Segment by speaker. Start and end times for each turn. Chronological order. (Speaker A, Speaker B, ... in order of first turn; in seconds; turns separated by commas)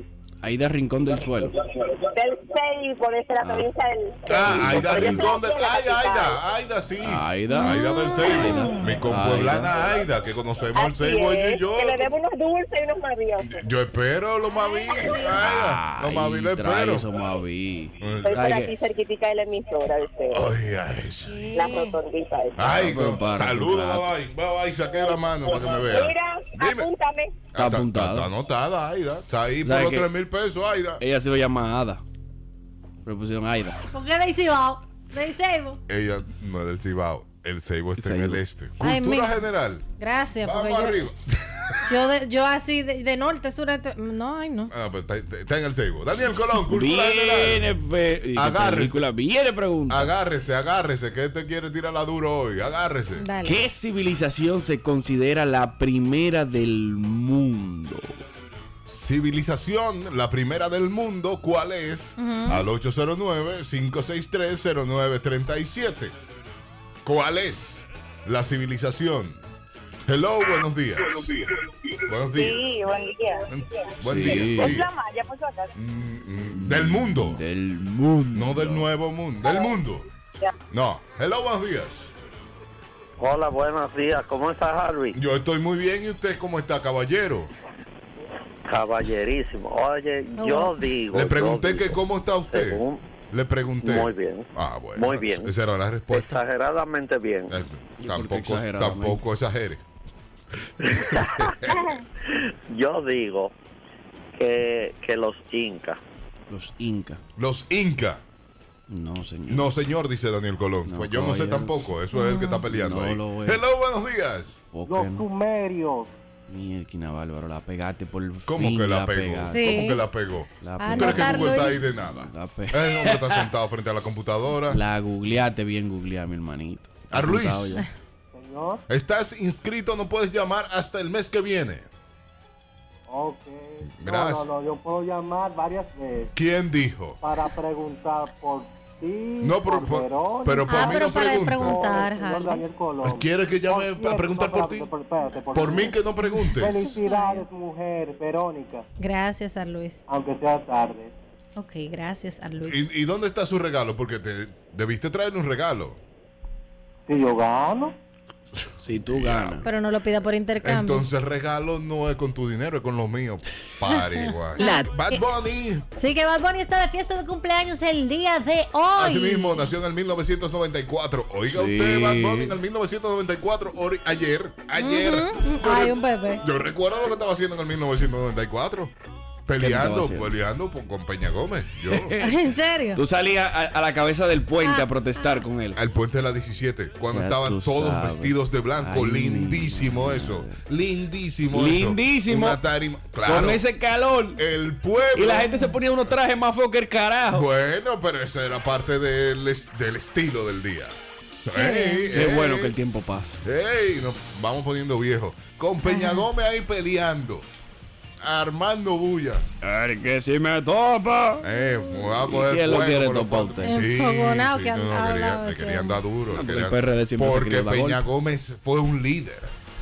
Speaker A: 0.4-1.5, Speaker B: 2.1-6.4, Speaker A: 3.4-3.7, Speaker C: 4.2-12.1, Speaker A: 4.3-5.3, Speaker A: 7.0-9.8, Speaker D: 7.5-8.9, Speaker B: 10.7-13.6, Speaker C: 13.5-17.1, Speaker D: 14.5-15.3, Speaker A: 15.1-18.7, Speaker C: 18.0-18.4, Speaker B: 18.2-20.5, Speaker C: 20.3-21.4, Speaker D: 21.3-22.0, Speaker B: 21.5-22.8, Speaker C: 22.6-26.9, Speaker A: 22.6-24.1, Speaker B: 25.5-27.4, Speaker C: 27.5-31.0, Speaker A: 27.5-28.3, Speaker A: 29.6-30.1, Speaker A: 31.0-32.0, Speaker A: 33.0-33.8, Speaker D: 33.9-35.8, Speaker C: 35.9-39.9, Speaker A: 38.0-38.4, Speaker D: 38.8-39.4, Speaker D: 40.0-41.0, Speaker C: 40.4-41.8, Speaker D: 41.9-44.7, Speaker C: 44.7-47.6, Speaker A: 46.7-50.1, Speaker C: 48.4-49.0, Speaker C: 49.9-53.2, Speaker D: 53.2-53.6, Speaker A: 53.4-58.2, Speaker C: 58.9-66.1, Speaker D: 62.2-62.6, Speaker C: 67.0-69.4, Speaker C: 70.1-71.3, Speaker C: 72.0-72.6, Speaker B: 72.5-73.4, Speaker C: 73.5-74.9, Speaker A: 74.0-74.8, Speaker B: 74.6-75.7, Speaker C: 75.7-77.4, Speaker A: 76.5-78.9, Speaker C: 78.3-80.0, Speaker C: 80.7-82.1, Speaker E: 83.2-85.2, Speaker C: 85.1-87.5, Speaker E: 88.7-92.0, Speaker D: 90.4-90.7, Speaker C: 91.1-96.4, Speaker E: 92.5-93.0, Speaker E: 93.8-95.5, Speaker E: 96.1-97.5, Speaker C: 97.5-99.8, Speaker A: 98.0-99.2, Speaker E: 100.8-101.5, Speaker C: 100.8-101.9, Speaker E: 102.2-103.5, Speaker E: 104.3-106.0, Speaker A: 106.5-107.2, Speaker C: 107.4-108.2, Speaker A: 108.9-109.7, Speaker C: 109.5-114.6, Speaker A: 110.8-111.9, Speaker D: 112.1-112.6, Speaker A: 112.7-113.6, Speaker A: 114.7-115.2, Speaker F: 114.9-116.1, Speaker A: 116.5-119.9, Speaker C: 118.5-124.8, Speaker D: 119.5-120.0, Speaker A: 120.6-123.5, Speaker D: 120.8-121.8, Speaker A: 124.7-127.8, Speaker C: 127.1-127.8, Speaker F: 128.3-128.8, Speaker C: 128.9-131.9, Speaker F: 133.1-136.3, Speaker C: 133.9-134.5, Speaker C: 136.3-137.2, Speaker F: 137.2-148.8, Speaker C: 139.4-141.8, Speaker D: 140.7-142.7, Speaker C: 143.0-144.9, Speaker C: 145.5-146.9, Speaker D: 145.6-147.4, Speaker D: 149.0-150.0, Speaker F: 150.1-151.1, Speaker D: 151.6-152.8, Speaker C: 152.7-156.0, Speaker F: 157.1-158.0, Speaker C: 158.6-159.6, Speaker A: 158.8-159.6, Speaker D: 159.6-161.1, Speaker C: 160.6-165.8, Speaker D: 163.9-165.2, Speaker D: 165.9-169.7, Speaker C: 169.0-178.9, Speaker A: 171.5-172.6, Speaker D: 174.8-176.4, Speaker C: 179.4-182.1, Speaker A: 179.6-180.3, Speaker A: 181.9-185.8, Speaker D: 182.2-183.0, Speaker D: 184.6-185.4, Speaker C: 185.7-193.6, Speaker A: 187.1-190.6, Speaker A: 191.5-192.6, Speaker A: 193.2-194.4, Speaker C: 194.3-195.6, Speaker A: 195.1-197.4, Speaker C: 197.3-202.7, Speaker D: 201.5-202.1, Speaker A: 202.1-203.4, Speaker C: 203.4-207.5, Speaker D: 205.8-206.2, Speaker C: 208.2-209.4, Speaker A: 209.6-211.4, Speaker C: 211.4-219.5, Speaker A: 212.2-213.8, Speaker D: 213.6-216.0, Speaker A: 216.3-218.0